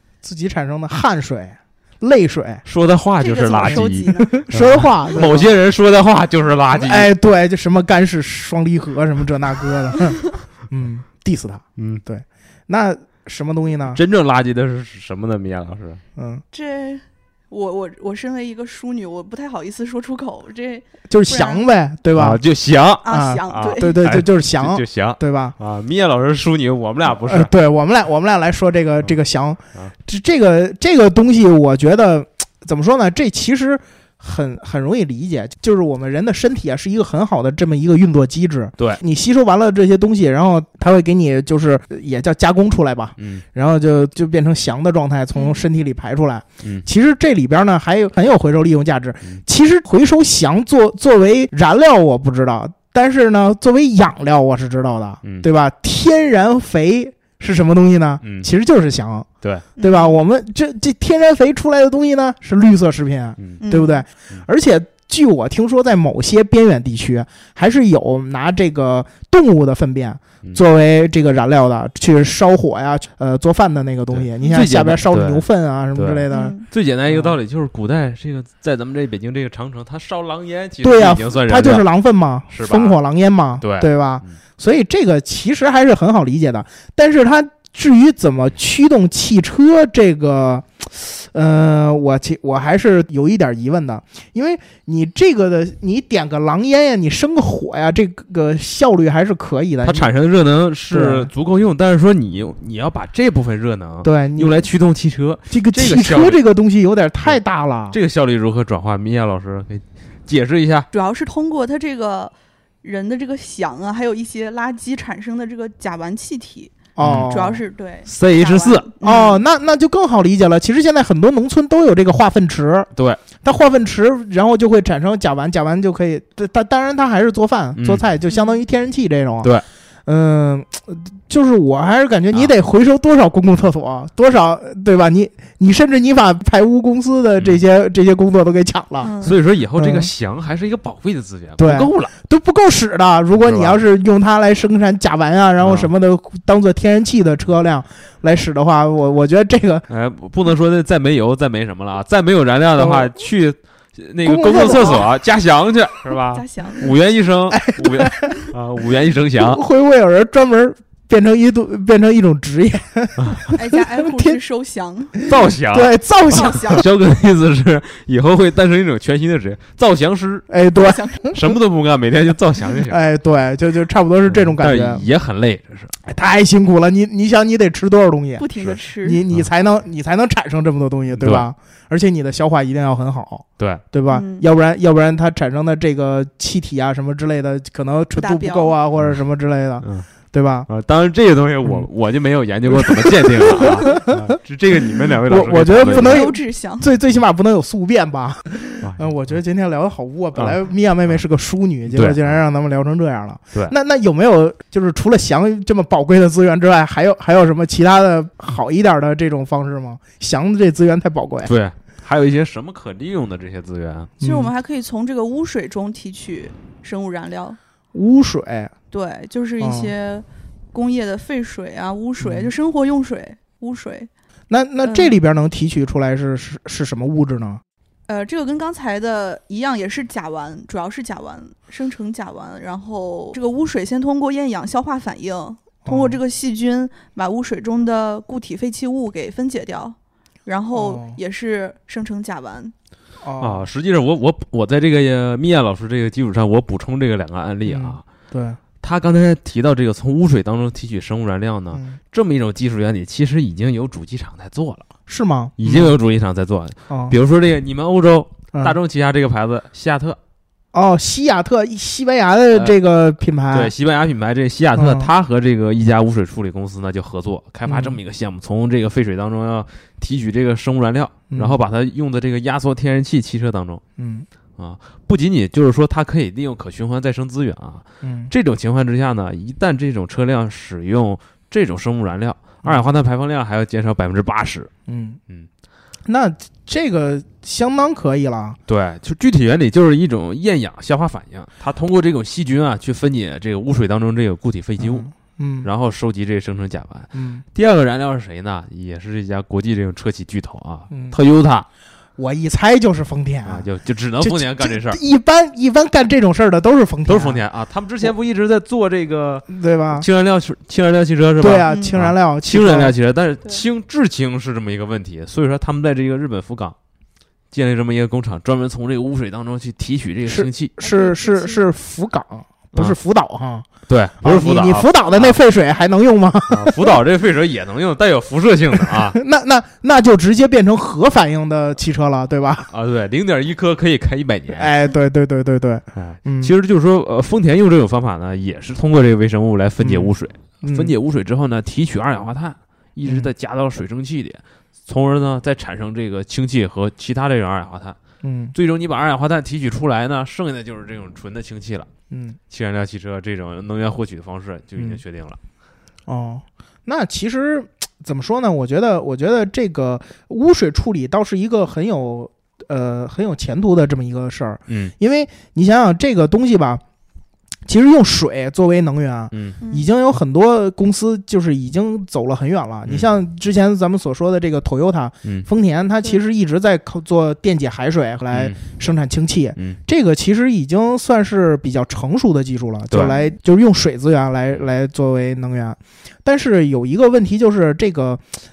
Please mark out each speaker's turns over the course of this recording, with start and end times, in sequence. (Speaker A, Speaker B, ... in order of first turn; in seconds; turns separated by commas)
Speaker A: 0.2-2.6, Speaker B: 2.6-7.1, Speaker C: 3.2-4.5, Speaker A: 3.6-5.5, Speaker A: 6.8-14.0, Speaker B: 11.8-12.0, Speaker B: 13.9-16.0, Speaker A: 16.1-16.4, Speaker C: 16.5-21.6, Speaker A: 21.1-22.4, Speaker B: 22.1-27.5, Speaker C: 23.0-24.0, Speaker A: 23.1-25.6, Speaker A: 27.2-59.3, Speaker B: 43.2-43.4, Speaker C: 45.3-45.6, Speaker B: 58.2-58.5, Speaker B: 59.4-59.7, Speaker C: 59.8-60.2, Speaker A: 59.8-76.5, Speaker C: 63.6-64.0, Speaker B: 74.1-81.8, Speaker C: 76.3-76.6, Speaker A: 77.1-77.4, Speaker A: 80.8-100.1, Speaker B: 82.5-83.0, Speaker B: 83.6-84.3, Speaker B: 99.8-106.4, Speaker A: 100.9-101.3, Speaker A: 104.0-104.7, Speaker A: 105.5-108.0, Speaker B: 107.9-110.9, Speaker C: 110.9-119.4, Speaker A: 117.0-117.6, Speaker B: 117.0-117.3, Speaker B: 118.0-118.9, Speaker A: 119.0-122.9, Speaker B: 123.0-123.2, Speaker A: 123.4-129.5, Speaker B: 127.8-128.0, Speaker C: 128.3-128.6, Speaker A: 130.1-139.2, Speaker C: 139.0-139.4, Speaker B: 139.2-142.1, Speaker A: 139.8-140.1, Speaker A: 141.6-149.8, Speaker B: 143.4-143.8, Speaker B: 145.6-145.9, Speaker B: 149.9-159.6, Speaker A: 152.8-153.1, Speaker A: 154.2-155.1, Speaker C: 154.5-155.0, Speaker C: 156.3-156.9, Speaker A: 157.5-158.3, Speaker A: 159.4-164.4, Speaker C: 163.5-165.2, Speaker B: 165.3-170.5, Speaker A: 165.7-166.8, Speaker C: 166.3-166.8, Speaker A: 170.5-171.6, Speaker C: 170.8-171.3, Speaker B: 171.3-173.1, Speaker A: 172.9-175.1, Speaker B: 174.3-175.9, Speaker A: 176.0-190.7, Speaker C: 178.4-179.2, Speaker B: 181.2-181.4, Speaker C: 184.1-184.4, Speaker C: 188.2-188.8, Speaker B: 189.8-190.1, Speaker B: 190.7-196.3, Speaker A: 191.6-191.9, Speaker A: 192.7-211.5, Speaker C: 195.8-196.9, Speaker B: 198.8-199.1, Speaker B: 201.9-202.4, Speaker B: 211.4-214.1, Speaker A: 214.2-214.5, Speaker C: 214.2-217.6, Speaker A: 217.9-218.7, Speaker C: 218.9-224.1, Speaker A: 219.6-219.9, Speaker A: 222.2-222.5, Speaker A: 224.5-227.6, Speaker C: 224.8-225.2, Speaker C: 228.1-242.7, Speaker A: 235.8-236.2, Speaker A: 240.7-241.2, Speaker A: 243.2-243.7, Speaker B: 243.4-248.0, Speaker A: 247.7-248.6, Speaker B: 248.8-254.8, Speaker A: 251.7-252.0, Speaker A: 255.1-256.0, Speaker B: 255.6-260.2, Speaker A: 256.9-257.2, Speaker A: 260.7-263.7, Speaker B: 263.5-273.8, Speaker A: 264.8-265.1, Speaker A: 267.6-268.0, Speaker A: 271.3-271.6, Speaker A: 274.0-274.3, Speaker B: 274.6-284.7, Speaker A: 278.0-278.3, Speaker A: 282.6-282.9, Speaker A: 284.9-285.2, Speaker A: 286.1-288.6, Speaker B: 288.7-295.1, Speaker A: 294.8-295.7, Speaker B: 295.6-301.6, Speaker A: 297.1-297.4, Speaker A: 300.9-301.2, Speaker A: 302.2-303.6, Speaker B: 303.4-305.0, Speaker A: 304.2-307.4, Speaker B: 307.1-316.7, Speaker A: 309.5-310.1, Speaker A: 311.4-312.9, Speaker C: 311.7-312.0, Speaker B: 317.5-320.7, Speaker A: 320.2-323.7, Speaker C: 320.8-321.7, Speaker B: 323.9-325.4, Speaker A: 324.2-327.0, Speaker B: 326.5-329.2, Speaker A: 328.7-332.7, Speaker B: 332.7-334.7, Speaker A: 334.5-336.5, Speaker B: 335.9-348.0, Speaker A: 339.8-340.9, Speaker A: 343.1-343.3, Speaker A: 348.2-348.6, Speaker B: 348.6-351.9, Speaker A: 352.1-352.4, Speaker B: 352.5-355.4, Speaker A: 356.1-366.8, Speaker B: 364.7-364.9, Speaker A: 367.6-388.2, Speaker B: 369.3-369.6, Speaker C: 369.6-369.9, Speaker B: 378.3-378.6, Speaker B: 382.9-383.1, Speaker C: 383.0-383.4